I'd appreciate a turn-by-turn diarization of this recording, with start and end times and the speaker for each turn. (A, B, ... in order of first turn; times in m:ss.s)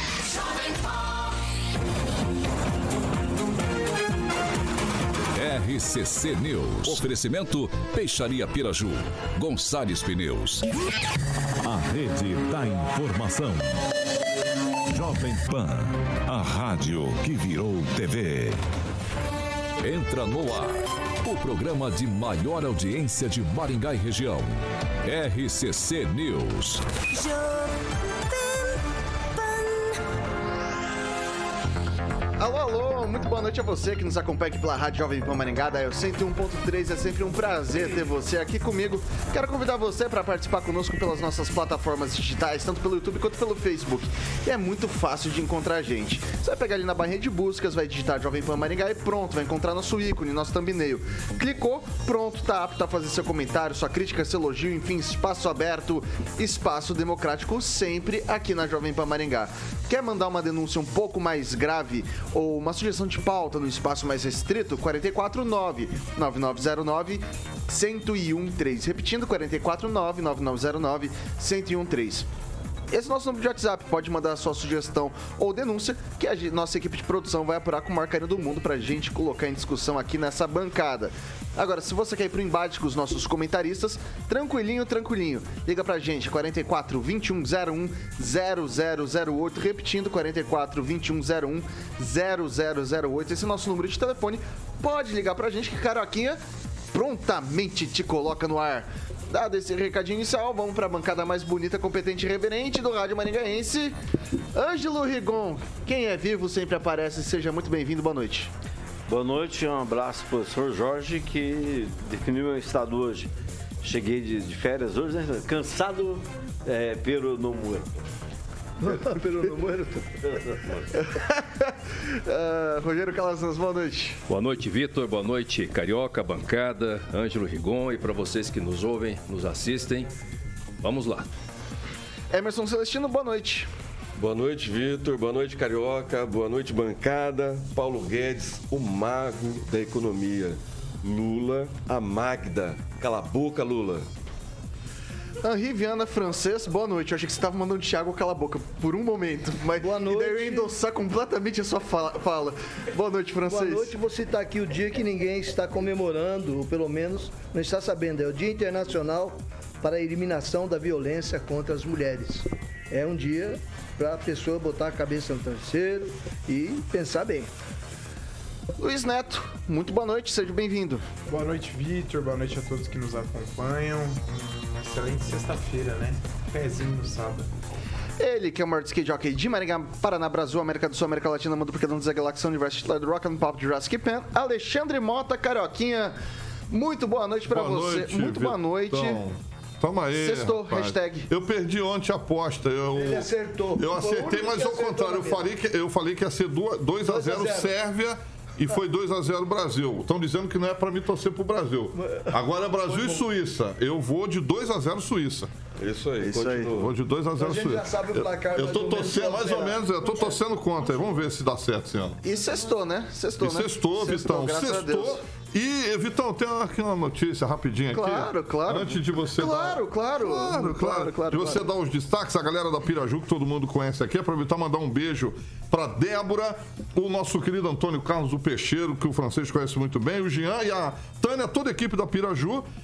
0:05.3-0:10.6 A
0:11.6-0:13.7 A
0:14.9-0:18.6 A
0:19.8-0:24.5 A
0:25.0-0:26.8 A
0:32.4-1:12.3 B
1:12.9-1:36.4 B
1:36.9-1:44.0 B
1:44.5-1:48.5 B
1:49.1-1:53.3 C
1:53.8-1:58.0 C
1:58.8-2:00.9 C
2:00.9-2:04.2 B
2:04.3-2:10.1 D
2:10.8-2:11.3 D
2:12.3-2:13.7 B
2:14.2-2:24.0 E
2:25.4-2:33.9 B
2:29.8-2:30.7 F
2:33.4-2:47.5 F
2:48.8-2:51.0 B
2:51.3-2:57.5 G
2:58.2-3:06.2 B
3:06.7-3:09.2 B
3:07.5-3:25.5 H
3:10.1-3:11.3 B
3:12.9-3:15.5 F
3:17.0-3:17.7 F
3:22.0-3:22.3 F
3:22.9-3:23.2 F
3:25.8-3:26.9 E
3:26.2-3:26.7 B
3:26.8-3:32.2 H
3:27.4-3:30.3 F
3:32.2-3:35.2 B
3:33.4-3:52.6 H
3:37.9-3:41.6 B